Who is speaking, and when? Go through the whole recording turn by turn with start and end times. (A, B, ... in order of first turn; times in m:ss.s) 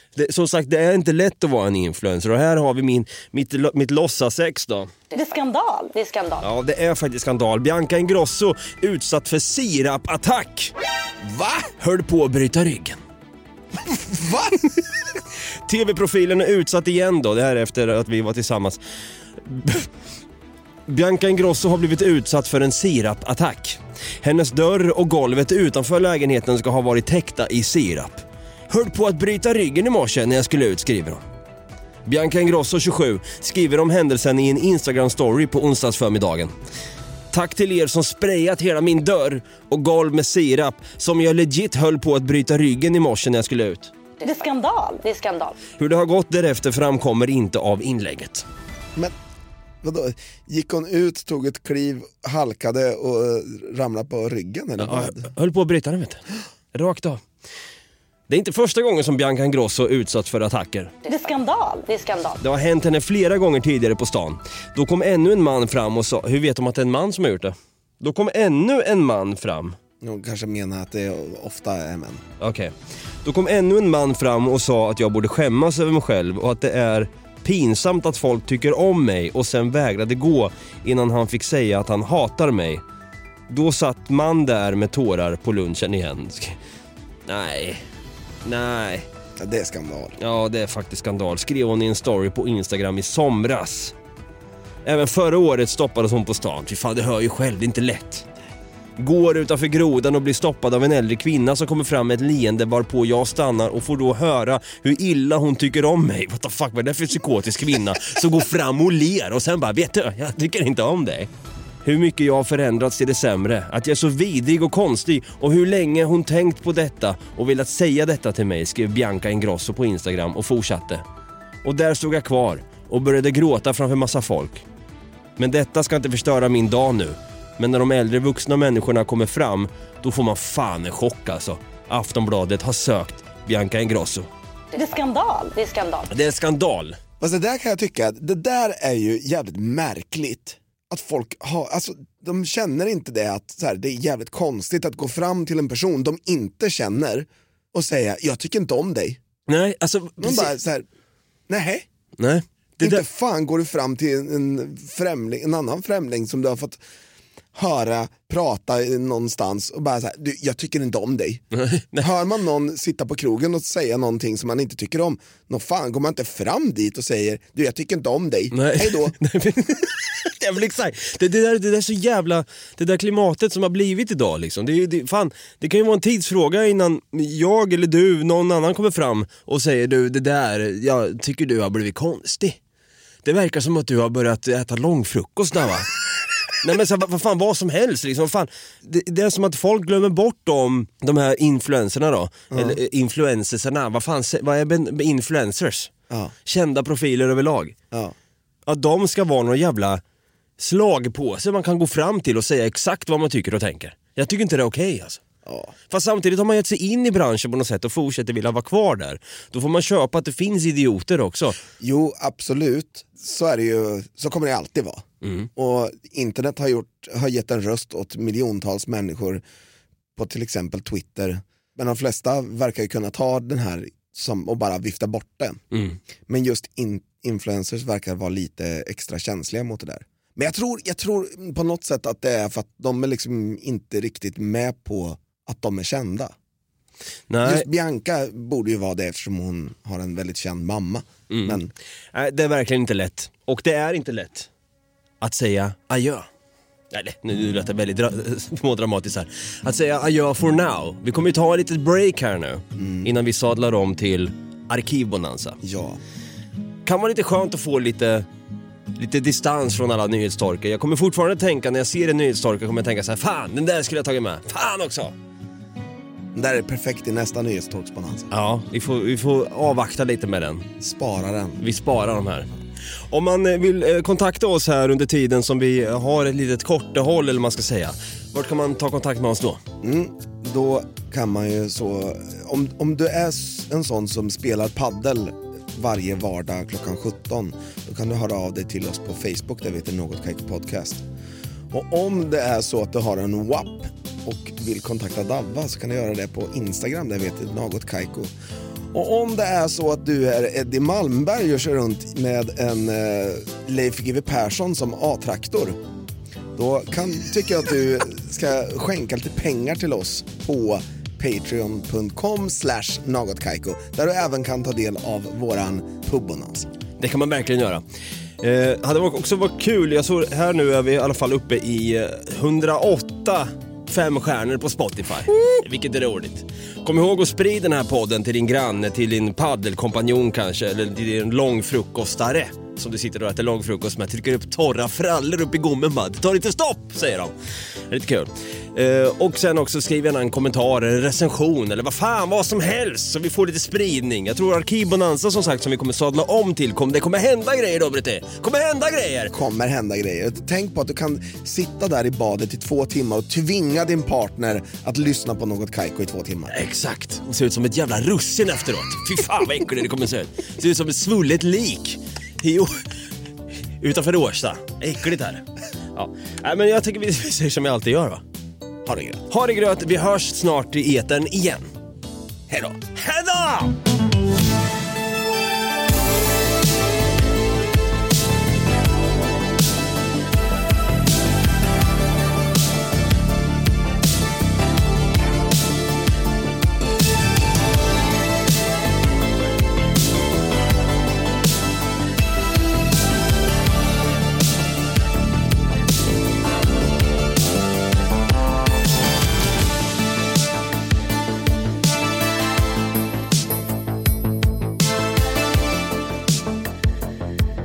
0:00.2-0:04.9 A
0:05.1-0:06.5 B
0:06.4-0:10.7 A
0:11.2-0:11.7 C
0:11.8-0:13.0 A
0:13.8-0:14.8 C
0:15.7-0:18.8 A
0:19.4-0:19.9 A
0:20.9-0:31.2 A
0:32.1-0:36.5 A
0:37.3-0:43.9 A
0:44.2-0:45.6 B
0:45.8-0:48.5 A
0:49.8-0:55.3 C
0:54.8-0:57.2 A
0:58.3-1:00.9 A
1:01.0-1:02.4 B
1:02.4-1:09.8 A
1:10.0-1:12.2 C
1:12.4-1:22.8 A
1:23.5-1:26.6 A
1:27.3-1:27.8 A
1:28.4-1:29.1 A
1:29.4-1:30.2 C
1:30.2-1:33.9 A
1:34.8-1:38.3 A
1:39.0-1:51.3 A
1:51.8-2:01.0 A
2:01.6-2:04.6 A
2:05.4-2:14.3 A
2:14.7-2:16.1 B
2:16.1-2:17.0 A
2:17.2-2:29.2 C
2:29.5-2:30.6 A
2:30.2-2:30.9 C
2:31.5-2:31.9 C
2:32.2-2:33.0 A
2:32.8-2:36.8 C
2:37.5-2:41.4 C
2:41.5-2:42.1 A
2:42.0-2:49.1 C
2:48.5-3:02.6 A
3:03.2-3:05.9 A
3:06.6-3:15.9 A
3:12.5-3:12.8 C
3:16.5-3:17.8 A
3:17.9-3:18.2 C
3:18.6-3:20.0 A
3:20.6-3:25.2 A
3:25.4-3:25.7 C
3:25.9-3:31.6 A
3:31.8-3:35.0 C
3:35.2-3:35.5 A
3:35.6-3:39.4 C
3:40.2-3:45.6 C
3:45.7-3:46.0 A
3:46.3-3:56.4 C
3:57.3-3:57.7 A
3:57.4-4:01.7 C
4:01.3-4:01.6 A
4:02.1-4:04.5 A
4:05.2-4:06.3 A
4:06.9-4:15.6 A
4:12.8-4:13.1 C
4:15.6-4:16.0 C
4:16.9-4:18.3 A
4:19.0-4:25.1 A
4:26.3-4:28.3 C
4:28.3-4:30.7 A
4:30.8-4:31.6 C
4:31.6-4:32.5 A
4:33.1-4:39.6 A
4:39.8-4:51.0 C
4:51.7-4:58.3 C
4:58.9-5:05.8 C
5:06.6-5:16.7 C
5:17.0-5:17.8 A
5:18.4-5:37.4 A
5:37.9-5:49.3 A
5:49.3-5:56.6 C
5:56.5-6:02.8 A
6:03.8-6:08.2 A
6:08.9-6:09.2 C
6:09.3-6:11.7 A
6:12.7-6:13.8 A